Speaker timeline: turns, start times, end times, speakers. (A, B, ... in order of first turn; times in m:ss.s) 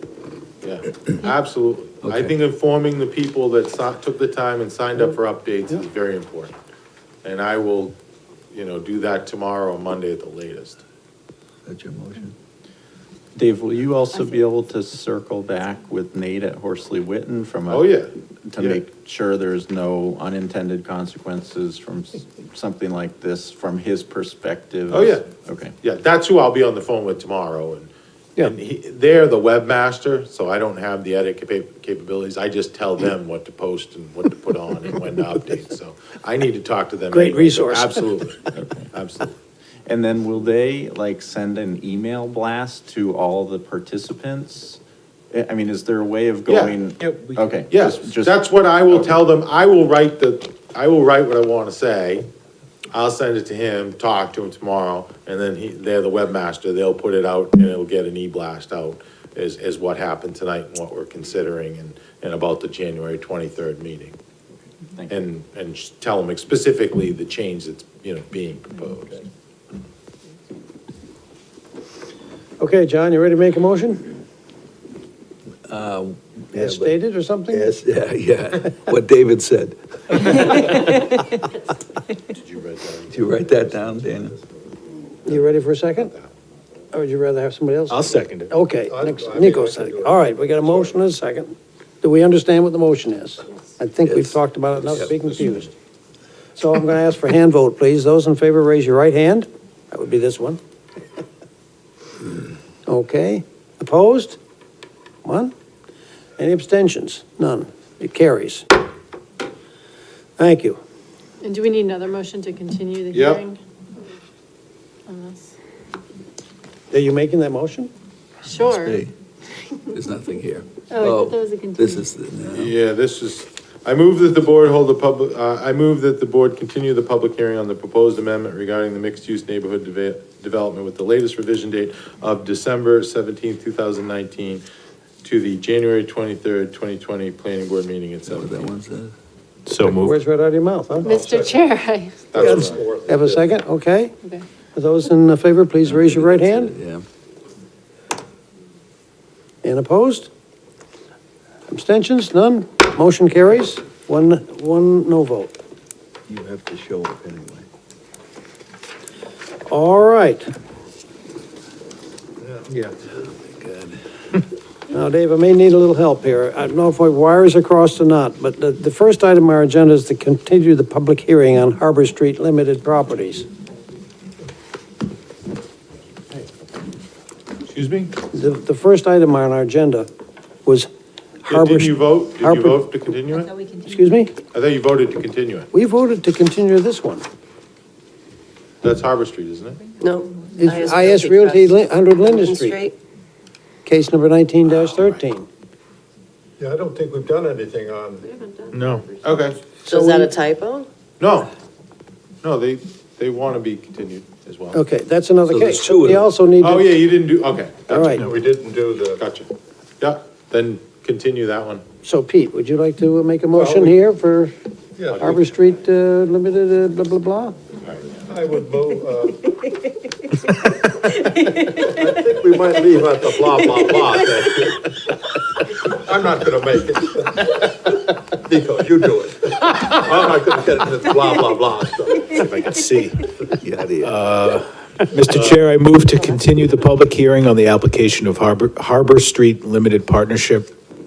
0:00.6-0:06.6 A
0:02.0-0:02.3 B
0:07.2-0:08.0 A
0:08.5-0:10.8 A
0:11.6-0:12.3 B
0:13.3-0:17.9 C
0:17.7-0:18.8 A
0:18.5-0:25.7 C
0:24.9-0:25.2 A
0:25.8-0:39.3 A
0:37.1-0:38.4 D
0:39.9-0:44.8 C
0:45.3-0:49.2 C
0:46.4-0:46.8 A
0:47.0-0:47.5 E
0:47.7-0:52.3 A
0:52.9-1:04.2 A
1:05.1-1:09.3 A
1:12.6-1:14.1 D
1:15.7-1:16.9 B
1:16.5-1:17.7 D
1:17.5-1:21.0 B
1:22.3-1:23.8 A
1:23.1-1:24.4 B
1:25.3-1:26.1 D
1:26.1-1:26.3 A
1:26.9-1:35.7 D
1:27.9-1:28.5 F
1:28.8-1:30.9 E
1:34.0-1:34.4 B
1:36.6-1:40.6 D
1:42.9-1:44.4 D
1:45.2-1:45.5 D
1:46.4-1:48.7 D
1:50.4-1:50.8 D
1:51.4-1:53.6 G
1:53.1-1:53.4 A
1:55.1-1:55.5 G
1:56.9-1:57.9 D
1:58.5-1:59.0 G
1:58.5-1:59.1 B
1:59.9-2:02.7 B
2:00.9-2:02.0 G
2:02.5-2:14.6 A
2:15.2-2:18.7 A
2:18.3-2:19.1 B
2:19.8-2:21.1 D
2:21.0-2:22.4 G
2:21.1-2:21.6 E
2:22.3-2:22.8 A
2:22.3-2:23.6 E
2:22.3-2:24.1 D
2:24.7-2:26.8 D
2:25.8-2:27.0 B
2:29.6-2:30.3 D
2:31.7-2:35.5 D
2:36.3-2:37.7 B
2:39.6-2:40.5 D
2:42.7-2:44.0 B
2:44.9-2:53.5 D
2:57.7-2:58.2 A
2:58.3-3:00.1 D
3:01.5-3:02.8 D
3:01.5-3:03.6 A
3:03.7-3:04.4 D
3:04.4-3:05.7 A
3:05.7-3:07.2 D
3:08.8-3:09.9 A
3:10.0-3:12.9 H
3:10.6-3:12.8 D
3:13.8-3:15.5 D
3:16.6-3:18.3 E
3:18.7-3:19.1 F
3:19.2-3:19.6 A
3:19.8-3:20.9 H
3:19.9-3:20.2 E
3:21.2-3:21.5 A
3:22.4-3:24.8 A
3:24.7-3:26.9 D
3:25.5-3:26.3 B
3:26.6-3:28.3 A
3:27.9-3:28.2 D
3:28.1-3:29.2 E
3:29.2-3:29.5 A
3:30.0-3:31.8 A
3:32.0-3:34.5 D
3:33.5-3:34.0 E
3:35.0-3:35.4 E
3:35.2-3:37.6 D
3:37.8-3:38.2 A
3:38.3-3:39.5 E
3:41.7-3:44.9 E
3:45.8-3:52.3 E
3:52.3-3:53.3 F
3:53.6-3:54.2 B
3:54.0-4:00.7 F